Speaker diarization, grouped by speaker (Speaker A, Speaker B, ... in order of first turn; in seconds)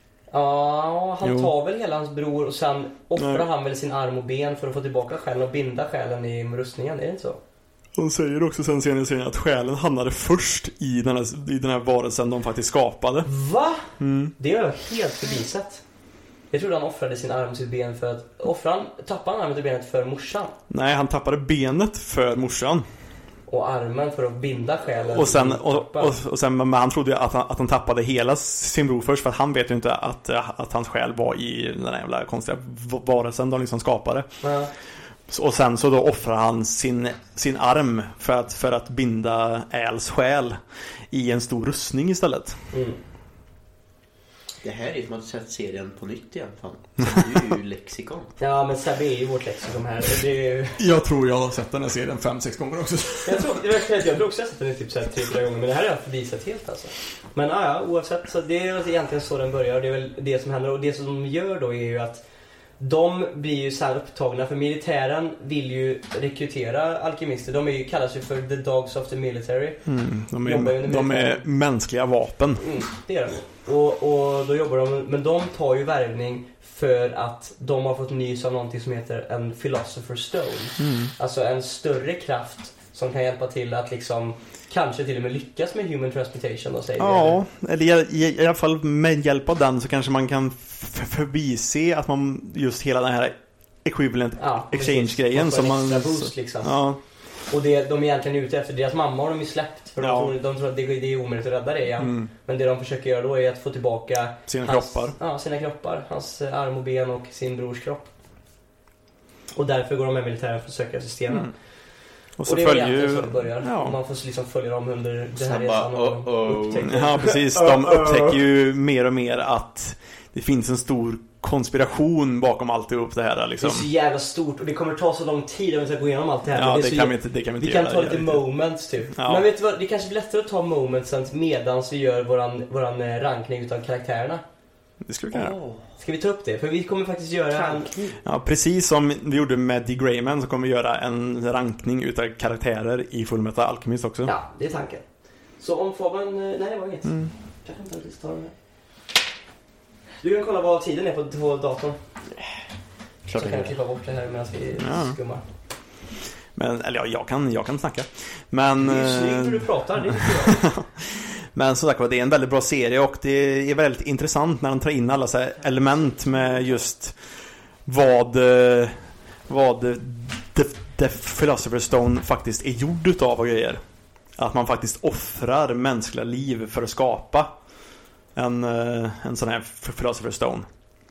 Speaker A: 0.3-7.4, 13.2-15.8, 16.5-20.5, 23.5-26.2, 34.4-34.7, 42.7-43.0, 48.4-50.8, 53.2-62.2, 62.8-69.9, 70.4-71.4, 72.6-87.4, 94.4-96.8, 97.5-108.1, 109.5-111.5, 112.4-118.4, 123.6-134.4, 136.0-137.9, 144.2-145.0, 145.6-148.5, 150.2-152.0, 153.4-155.4, 158.8-160.7
Speaker B: 1.2-1.5, 3.2-3.5, 8.0-13.3, 14.0-14.3, 20.7-22.8, 25.1-34.3, 35.3-40.6, 41.1-42.6, 50.8-53.6, 69.8-72.7, 80.8-81.1, 87.0-97.0, 100.0-100.3, 102.0-102.3, 104.5-105.2, 112.4-114.0, 116.8-123.9, 126.5-128.4, 129.1-129.5, 135.0-135.6, 138.2-144.3, 147.0-147.3, 154.8-155.2, 156.5-167.2, 167.8-173.8, 174.3-177.5, 178.3-180.7
Speaker C: 44.6-48.3, 115.3-117.0, 135.3-135.9, 137.5-138.2, 153.2-153.8